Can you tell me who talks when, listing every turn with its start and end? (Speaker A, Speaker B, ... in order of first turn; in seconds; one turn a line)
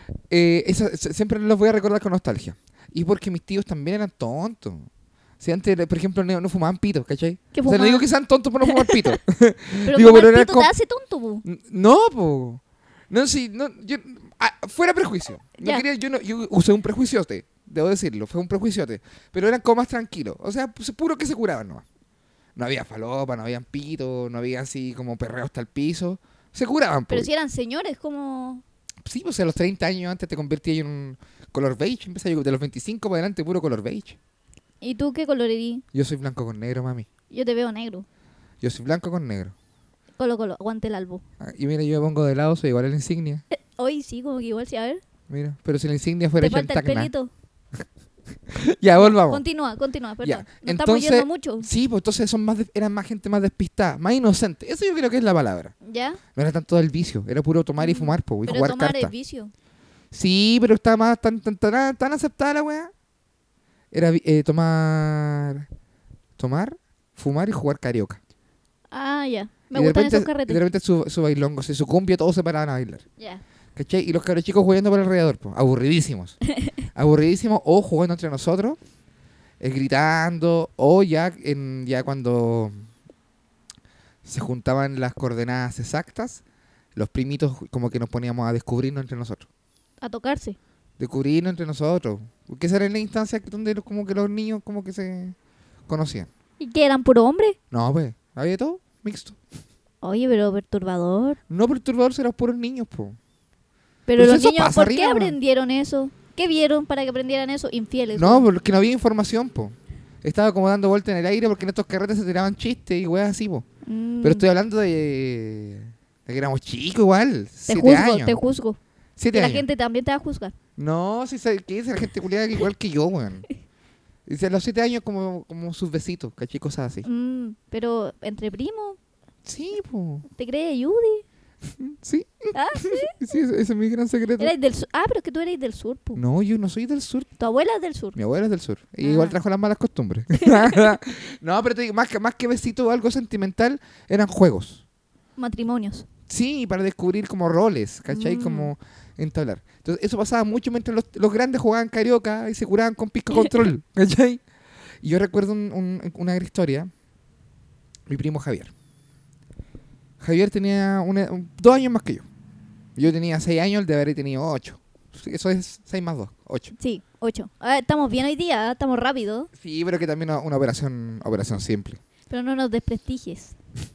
Speaker A: 0.3-4.9
Speaker A: 5.4-10.7
Speaker B: 7.5-8.1
Speaker B: 8.6-9.2
Speaker B: 9.9-11.4
Speaker A: 11.4-21.8
Speaker B: 15.6-15.8
Speaker A: 22.6-27.3
Speaker B: 27.1-28.6
Speaker A: 29.0-34.2
Speaker B: 34.8-35.8
Speaker A: 35.9-37.1
Speaker B: 37.3-38.0
Speaker A: 38.6-39.5
Speaker B: 40.2-41.2
Speaker A: 41.4-43.4
Speaker B: 43.5-45.0
Speaker A: 45.3-47.1
Speaker B: 46.4-47.3
Speaker A: 48.5-49.4
Speaker B: 49.0-51.7
Speaker A: 50.2-55.7
Speaker B: 55.9-56.2
Speaker A: 56.3-59.1
Speaker B: 57.8-59.5
Speaker A: 60.1-62.9
Speaker A: 63.9-65.7
Speaker A: 66.4-68.2
Speaker B: 68.9-70.6
Speaker A: 69.7-73.0
Speaker B: 73.2-73.4
Speaker A: 73.8-76.4
Speaker A: 76.9-78.8
Speaker A: 79.6-82.8
Speaker A: 84.2-86.4
Speaker A: 87.0-89.5
Speaker B: 90.0-90.6
Speaker A: 91.0-95.4
Speaker A: 95.9-96.3
Speaker B: 96.6-97.6
Speaker A: 97.7-99.4
Speaker B: 100.0-101.4
Speaker A: 101.5-103.2
Speaker B: 104.1-108.5
Speaker A: 104.2-105.4
Speaker A: 108.1-113.7
Speaker B: 113.8-114.5
Speaker A: 114.2-118.4
Speaker B: 117.7-118.8
Speaker A: 119.2-119.6
Speaker B: 119.3-120.5
Speaker A: 120.8-123.5
Speaker A: 124.3-127.1
Speaker B: 127.0-129.0
Speaker A: 129.4-130.2
Speaker B: 130.3-131.2
Speaker A: 131.7-134.5
Speaker B: 132.5-133.1
Speaker B: 134.4-136.2
Speaker A: 136.2-137.3
Speaker B: 137.4-138.2
Speaker A: 138.2-144.8
Speaker B: 139.0-139.4
Speaker B: 140.4-140.9
Speaker B: 145.4-146.1
Speaker A: 146.3-154.4
Speaker B: 148.1-148.7
Speaker A: 155.0-156.9
Speaker A: 158.1-158.7
Speaker A: 160.2-162.2
Speaker A: 163.0-166.7
Speaker B: 166.8-169.5
Speaker A: 169.6-172.0
Speaker B: 172.3-173.6